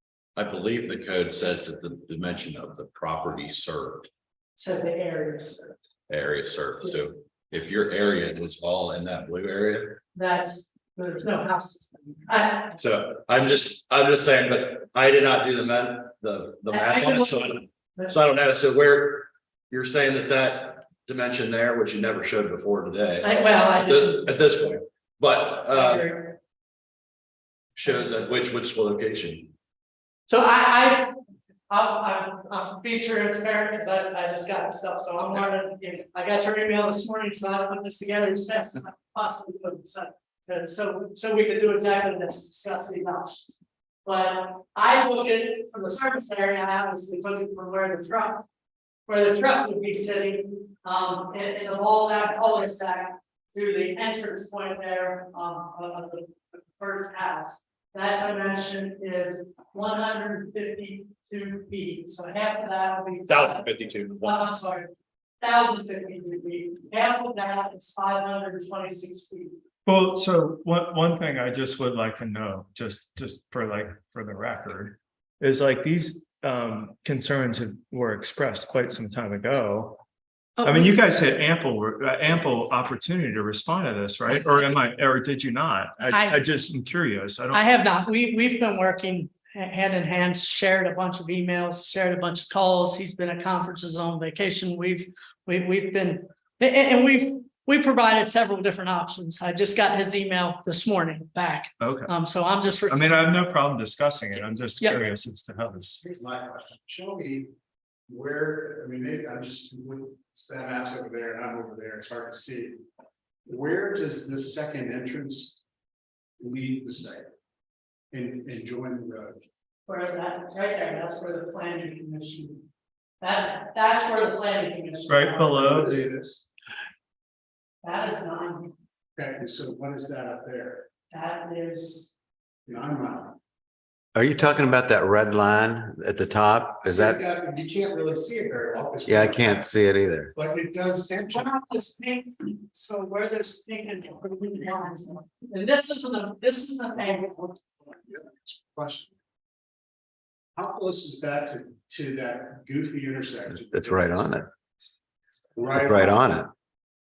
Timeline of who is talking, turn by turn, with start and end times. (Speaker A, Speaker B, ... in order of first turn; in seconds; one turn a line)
Speaker A: 0.4-4.1
Speaker B: 4.6-5.8
Speaker A: 6.1-10.0
Speaker B: 10.2-12.8
Speaker A: 12.8-26.1
Speaker B: 16.7-18.2
Speaker B: 23.2-24.3
Speaker B: 25.7-26.3
Speaker A: 27.8-29.5
Speaker B: 30.3-31.1
Speaker B: 31.7-43.5
Speaker B: 44.0-48.5
Speaker B: 49.1-69.5
Speaker A: 63.3-64.4
Speaker C: 69.9-80.0
Speaker B: 80.6-81.0
Speaker C: 80.6-87.6
Speaker B: 86.1-86.4
Speaker B: 87.5-103.2
Speaker C: 101.8-102.1
Speaker C: 102.9-106.0
Speaker D: 106.0-107.5
Speaker D: 108.1-112.8
Speaker D: 113.5-115.6
Speaker D: 116.4-117.2
Speaker D: 118.1-119.4
Speaker B: 119.9-122.6
Speaker B: 123.2-125.7
Speaker C: 125.1-126.1
Speaker D: 125.7-126.4
Speaker B: 127.8-128.7
Speaker D: 129.2-130.8
Speaker B: 131.1-132.2
Speaker D: 132.7-133.3
Speaker E: 134.2-137.2
Speaker D: 136.9-139.7
Speaker E: 139.1-140.3
Speaker D: 140.3-141.5
Speaker B: 141.3-147.7
Speaker D: 148.1-149.1
Speaker D: 150.6-154.3
Speaker E: 153.7-154.5
Speaker D: 155.6-156.2
Speaker E: 155.8-156.5